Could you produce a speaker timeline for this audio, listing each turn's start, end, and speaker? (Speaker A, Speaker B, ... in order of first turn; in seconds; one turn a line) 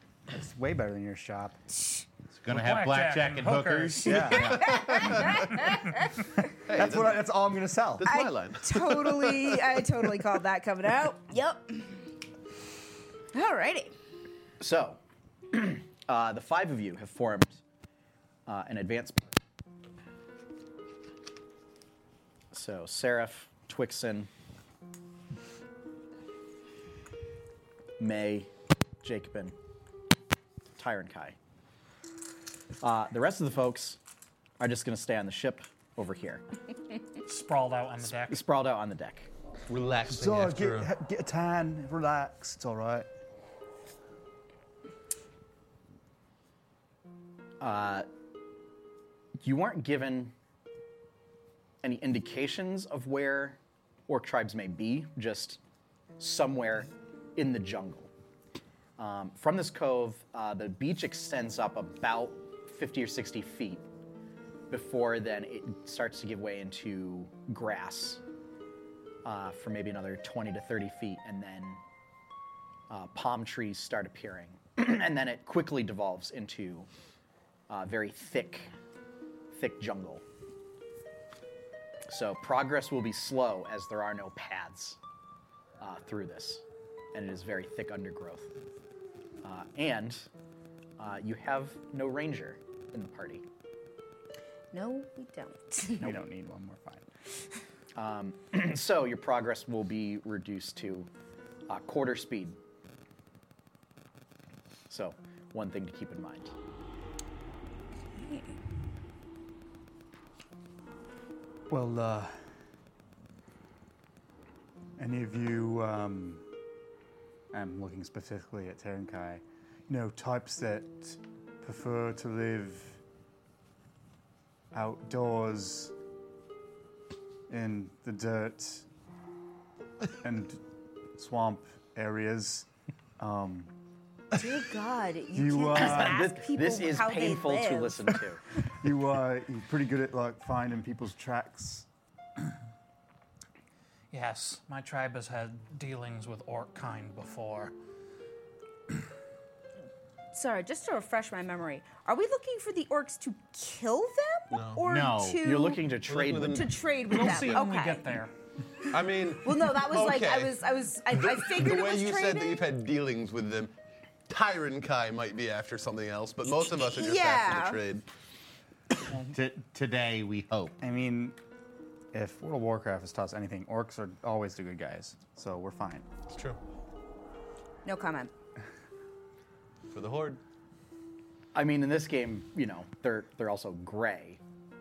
Speaker A: 0.3-1.6
Speaker B: 1.7-2.0
Speaker C: 2.3-5.4
Speaker D: 2.5-4.3
Speaker A: 4.0-4.6
Speaker B: 4.2-6.3
Speaker E: 4.7-5.5
Speaker E: 6.6-7.2
Speaker A: 6.7-8.1
Speaker E: 8.0-10.1
Speaker B: 8.0-12.1
Speaker B: 13.3-13.9
Speaker F: 14.6-17.6
Speaker F: 18.4-19.4
Speaker F: 22.5-24.3
Speaker F: 28.0-28.5
Speaker F: 29.0-29.5
Speaker F: 30.7-31.4
Speaker F: 32.8-34.0
Speaker F: 34.6-36.4
Speaker D: 37.2-38.4
Speaker F: 38.0-39.3
Speaker E: 39.7-40.9
Speaker A: 40.1-43.1
Speaker F: 47.6-48.0
Speaker F: 49.4-50.3
Speaker F: 51.8-55.6
Speaker F: 56.2-58.1
Speaker F: 59.0-63.8
Speaker F: 64.7-68.2
Speaker F: 69.2-71.8
Speaker F: 72.9-76.9
Speaker F: 77.7-78.7
Speaker F: 79.5-80.2
Speaker F: 82.1-85.0
Speaker F: 85.8-88.5
Speaker F: 89.4-90.3
Speaker F: 91.0-93.4
Speaker B: 94.7-96.1
Speaker A: 96.0-97.0
Speaker F: 97.9-101.1
Speaker F: 101.7-102.6
Speaker F: 104.9-106.5
Speaker B: 108.1-108.5
Speaker A: 111.7-112.4
Speaker A: 115.0-116.5
Speaker A: 117.5-123.0
Speaker A: 124.7-125.9
Speaker A: 127.5-128.8
Speaker A: 130.2-130.6
Speaker A: 131.2-132.7
Speaker A: 133.2-133.7
Speaker B: 134.3-138.2
Speaker A: 135.3-136.3
Speaker F: 135.7-138.4
Speaker A: 138.7-141.9
Speaker D: 144.1-147.7
Speaker B: 150.3-155.9
Speaker E: 154.5-154.8
Speaker C: 154.8-155.5
Speaker F: 155.4-156.7
Speaker E: 155.9-157.5
Speaker B: 156.4-158.1
Speaker D: 157.1-158.3
Speaker E: 158.9-163.7
Speaker B: 158.9-162.7
Speaker E: 164.3-168.1
Speaker B: 166.8-167.8
Speaker C: 169.3-170.8
Speaker A: 170.8-171.4
Speaker A: 172.1-176.1
Speaker E: 176.3-176.6
Speaker B: 177.8-178.3
Speaker E: 179.9-180.4
Speaker F: 181.5-184.4